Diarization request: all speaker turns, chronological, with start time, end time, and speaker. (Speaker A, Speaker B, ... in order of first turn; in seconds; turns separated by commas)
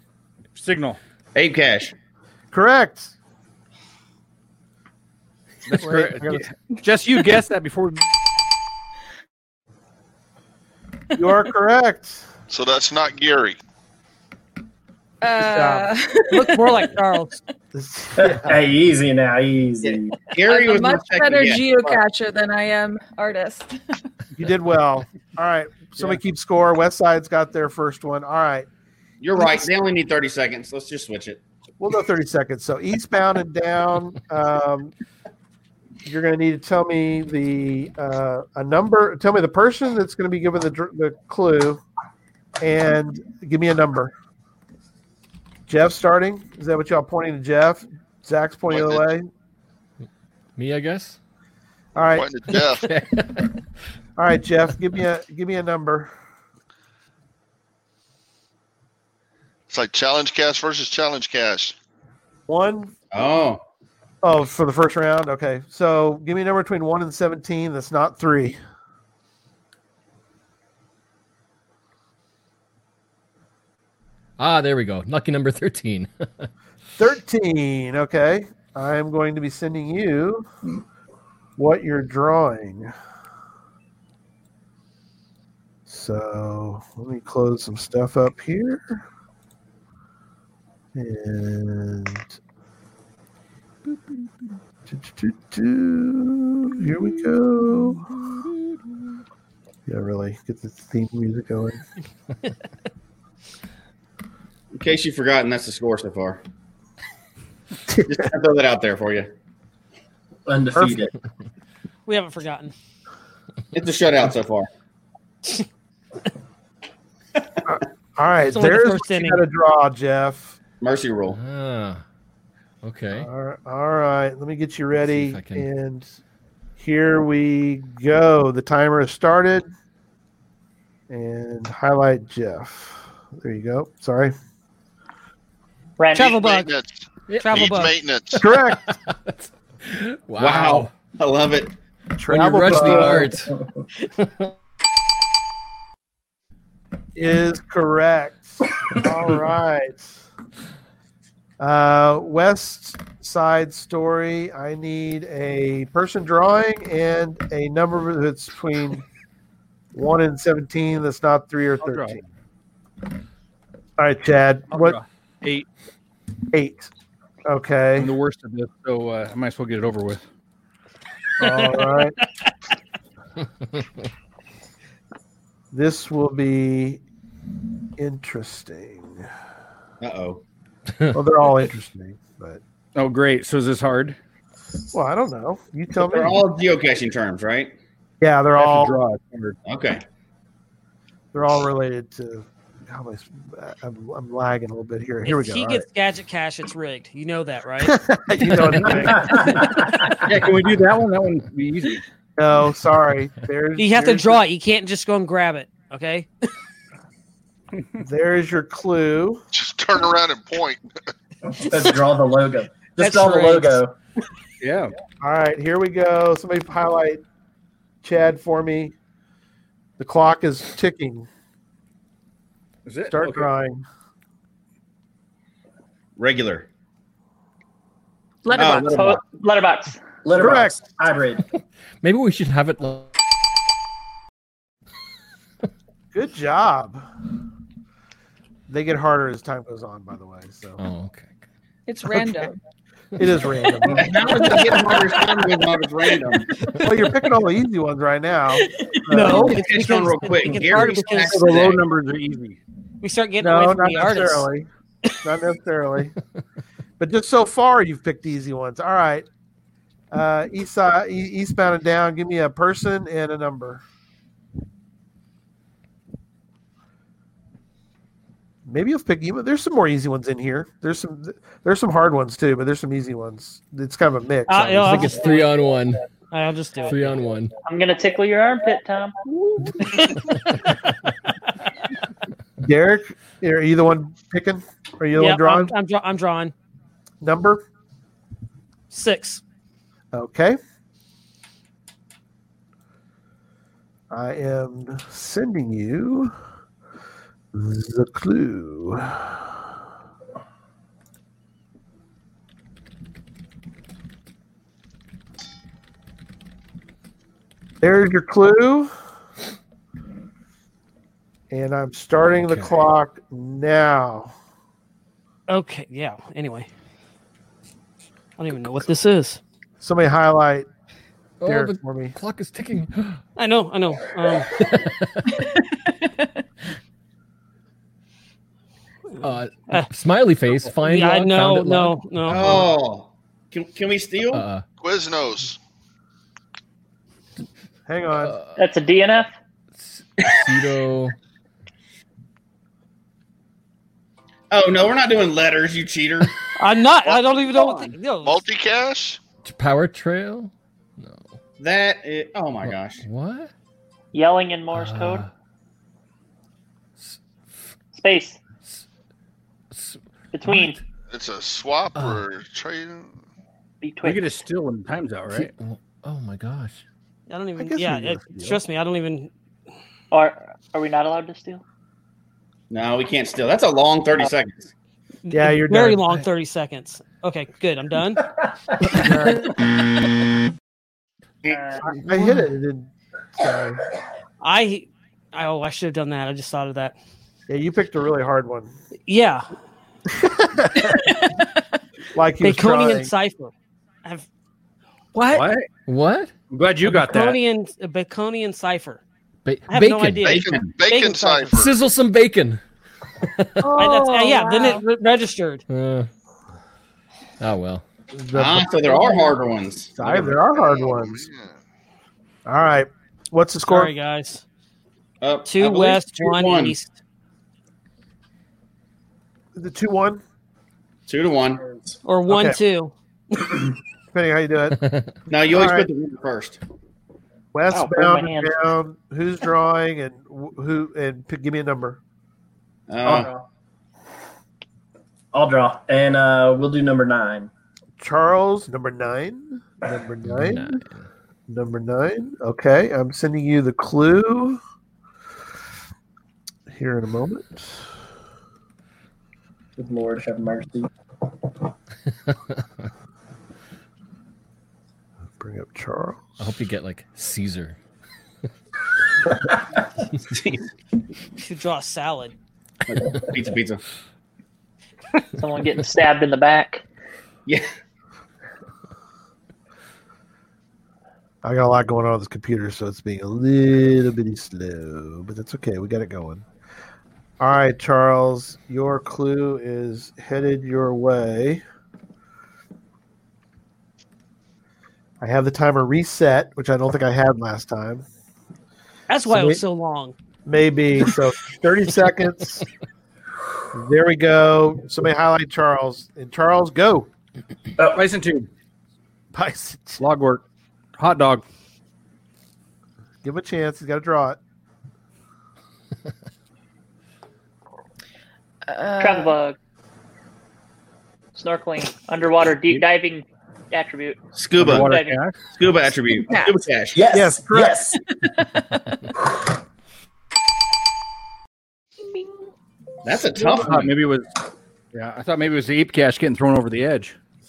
Speaker A: 0.5-1.0, Speaker B: 1.3-1.9, Speaker C: 2.5-3.1, Speaker A: 5.7-8.1, Speaker C: 5.8-6.5, Speaker C: 11.2-12.3, Speaker D: 12.5-13.6, Speaker E: 15.2-16.8, Speaker C: 15.4-15.9, Speaker F: 16.3-17.4, Speaker C: 17.7-18.6, Speaker G: 18.2-20.1, Speaker B: 19.8-22.0, Speaker E: 20.5-23.8, Speaker C: 24.4-28.7, Speaker B: 29.2-31.4, Speaker C: 31.8-34.9, Speaker C: 36.0-41.8, Speaker C: 42.6-44.1, Speaker C: 45.7-49.3, Speaker D: 48.7-49.0, Speaker H: 50.6-51.2, Speaker C: 51.9-52.3, Speaker D: 52.1-52.9, Speaker H: 52.5-53.5, Speaker C: 54.2-56.1, Speaker D: 59.7-61.7, Speaker C: 62.5-62.9, Speaker B: 63.1-63.6, Speaker C: 64.2-68.6, Speaker H: 74.4-76.5, Speaker C: 77.0-80.5, Speaker C: 81.6-82.9, Speaker C: 85.9-89.0, Speaker C: 90.9-92.4, Speaker C: 94.9-98.1, Speaker C: 99.9-101.8, Speaker B: 104.7-106.4, Speaker B: 108.1-109.3, Speaker G: 110.5-111.1, Speaker C: 110.7-111.1, Speaker F: 112.1-112.7, Speaker B: 113.7-114.7, Speaker C: 117.7-120.5, Speaker F: 118.5-119.4, Speaker B: 120.8-121.4, Speaker H: 121.3-122.0, Speaker H: 122.8-123.3, Speaker C: 123.1-126.1, Speaker H: 125.0-125.7, Speaker C: 126.8-129.7, Speaker C: 131.1-134.3, Speaker I: 136.0-136.3, Speaker F: 136.1-136.7, Speaker D: 136.3-138.5, Speaker H: 137.3-137.8, Speaker F: 137.3-137.9, Speaker C: 138.4-138.9, Speaker H: 138.4-140.9, Speaker B: 140.4-141.7, Speaker C: 142.2-143.3, Speaker H: 142.3-143.5, Speaker G: 142.7-143.2, Speaker H: 144.2-144.5, Speaker C: 147.2-150.2, Speaker C: 151.6-159.0, Speaker C: 159.9-162.2, Speaker A: 161.8-162.2, Speaker C: 164.0-165.0, Speaker A: 164.7-165.7, Speaker C: 166.5-166.9, Speaker C: 167.5-168.1, Speaker A: 168.0-170.2, Speaker C: 171.4-172.2, Speaker C: 175.7-177.0, Speaker C: 178.0-179.2, Speaker B: 180.0-180.4, Speaker C: 181.1-182.6, Speaker A: 182.9-184.2, Speaker C: 184.9-186.4, Speaker B: 186.0-187.7, Speaker C: 188.2-189.0, Speaker A: 188.6-189.6, Speaker B: 189.7-190.0, Speaker C: 191.3-195.8, Speaker F: 195.2-198.0, Speaker C: 197.8-199.6, Speaker G: 199.2-199.7, Speaker A: 200.2-202.0, Speaker C: 202.4-204.4, Speaker F: 203.8-206.3, Speaker C: 208.0-209.4, Speaker D: 209.5-210.8, Speaker G: 211.5-213.9, Speaker F: 213.0-213.8, Speaker A: 214.6-214.9, Speaker C: 215.2-217.2, Speaker C: 218.0-218.9, Speaker C: 220.0-221.3, Speaker A: 222.8-223.5, Speaker C: 223.1-223.8, Speaker B: 226.2-226.7, Speaker E: 228.4-229.0, Speaker B: 228.5-229.2, Speaker I: 228.8-230.0, Speaker G: 230.2-231.4, Speaker C: 230.4-230.8, Speaker H: 232.0-233.1, Speaker C: 236.1-237.0, Speaker C: 238.7-240.8, Speaker H: 240.8-241.3, Speaker E: 241.9-242.6, Speaker C: 242.1-242.5, Speaker C: 243.2-244.8, Speaker B: 243.9-246.5, Speaker C: 246.8-249.6, Speaker E: 248.7-249.2, Speaker F: 249.1-251.4, Speaker B: 249.3-251.8, Speaker A: 250.8-252.6, Speaker F: 253.0-254.5, Speaker C: 253.4-254.7, Speaker C: 255.2-256.1, Speaker C: 257.0-259.2, Speaker C: 260.1-263.8, Speaker C: 268.7-275.2, Speaker F: 274.5-275.6, Speaker H: 274.9-276.0, Speaker F: 276.3-277.0, Speaker H: 276.9-277.5, Speaker I: 277.6-279.2, Speaker C: 282.6-285.7, Speaker F: 285.1-286.5, Speaker C: 287.2-287.6, Speaker F: 288.9-289.4, Speaker C: 290.1-290.6, Speaker C: 294.1-296.3, Speaker C: 297.5-299.3, Speaker C: 307.8-308.9, Speaker C: 311.5-314.3, Speaker H: 312.2-312.7, Speaker F: 315.5-316.7, Speaker F: 318.4-319.4, Speaker C: 319.8-320.7, Speaker H: 321.4-323.2, Speaker C: 321.4-322.1, Speaker F: 323.4-324.5, Speaker H: 324.5-325.4, Speaker H: 329.2-332.7, Speaker F: 330.8-332.6, Speaker B: 332.3-334.4, Speaker H: 334.3-334.6, Speaker D: 334.8-335.6, Speaker C: 337.9-338.4, Speaker H: 338.2-338.6, Speaker I: 338.6-339.3, Speaker H: 339.7-341.1, Speaker B: 344.5-346.4, Speaker F: 346.6-348.4, Speaker B: 347.5-347.9, Speaker D: 348.2-349.2, Speaker H: 349.4-351.4, Speaker B: 351.6-353.0, Speaker H: 352.6-353.5, Speaker I: 354.1-355.2, Speaker H: 354.7-355.3, Speaker I: 357.9-358.4, Speaker H: 359.7-360.8, Speaker I: 360.3-360.8, Speaker D: 361.1-363.1, Speaker H: 361.9-362.2, Speaker I: 363.8-364.2, Speaker A: 364.0-365.5, Speaker H: 365.3-366.8, Speaker F: 367.3-369.3, Speaker C: 367.6-368.6, Speaker I: 370.1-371.6, Speaker B: 372.7-374.7, Speaker F: 375.2-378.3, Speaker C: 375.3-376.2, Speaker C: 378.9-379.4, Speaker I: 381.5-381.9, Speaker C: 381.8-383.8, Speaker F: 384.4-386.9, Speaker C: 387.5-388.7, Speaker F: 389.1-389.4, Speaker C: 390.3-391.0, Speaker C: 392.1-393.1, Speaker F: 392.4-393.5, Speaker E: 395.1-395.5, Speaker A: 395.3-395.7, Speaker H: 395.9-396.3, Speaker A: 396.5-397.4, Speaker F: 396.9-399.0, Speaker H: 399.4-400.4, Speaker F: 399.7-401.6, Speaker D: 400.2-401.7, Speaker B: 400.3-400.7, Speaker H: 401.5-402.6, Speaker H: 403.2-403.7, Speaker E: 403.6-404.8, Speaker F: 403.8-405.6, Speaker H: 405.7-406.1, Speaker H: 407.4-407.8, Speaker C: 408.1-409.3, Speaker B: 408.3-410.4, Speaker C: 410.0-411.2, Speaker D: 410.6-411.5, Speaker C: 412.4-413.9, Speaker F: 413.6-414.4, Speaker B: 415.2-416.7, Speaker F: 415.5-416.9, Speaker C: 419.5-420.2, Speaker B: 421.1-421.6, Speaker F: 422.0-423.5, Speaker C: 422.3-422.6, Speaker C: 424.1-424.8, Speaker H: 424.8-425.1, Speaker B: 425.3-426.6, Speaker C: 425.5-425.9, Speaker C: 427.5-432.0, Speaker I: 427.7-428.5, Speaker B: 432.9-433.3, Speaker G: 433.0-433.4, Speaker G: 435.3-437.5, Speaker C: 438.0-440.8, Speaker H: 440.2-441.1, Speaker C: 441.5-444.6, Speaker C: 446.7-447.8, Speaker G: 449.8-450.9, Speaker C: 455.4-456.3, Speaker H: 456.4-457.8, Speaker B: 460.2-460.6, Speaker F: 461.4-462.3, Speaker B: 462.9-463.8, Speaker I: 465.4-466.8, Speaker C: 471.4-476.4, Speaker C: 477.4-481.6, Speaker C: 485.2-488.0, Speaker F: 489.1-490.1, Speaker C: 489.2-489.6, Speaker C: 490.4-492.6, Speaker C: 493.7-497.1, Speaker A: 497.9-498.5, Speaker C: 499.3-500.0, Speaker A: 500.0-500.4, Speaker A: 501.0-501.4, Speaker C: 503.2-504.4, Speaker E: 508.7-509.4, Speaker I: 509.0-509.6, Speaker I: 511.3-514.2, Speaker B: 514.3-515.0, Speaker A: 514.6-515.4, Speaker I: 514.8-515.2, Speaker B: 515.5-517.0, Speaker E: 516.2-516.6, Speaker G: 516.9-518.0, Speaker C: 517.1-517.9, Speaker B: 523.0-523.9, Speaker A: 523.5-524.3, Speaker A: 524.9-527.1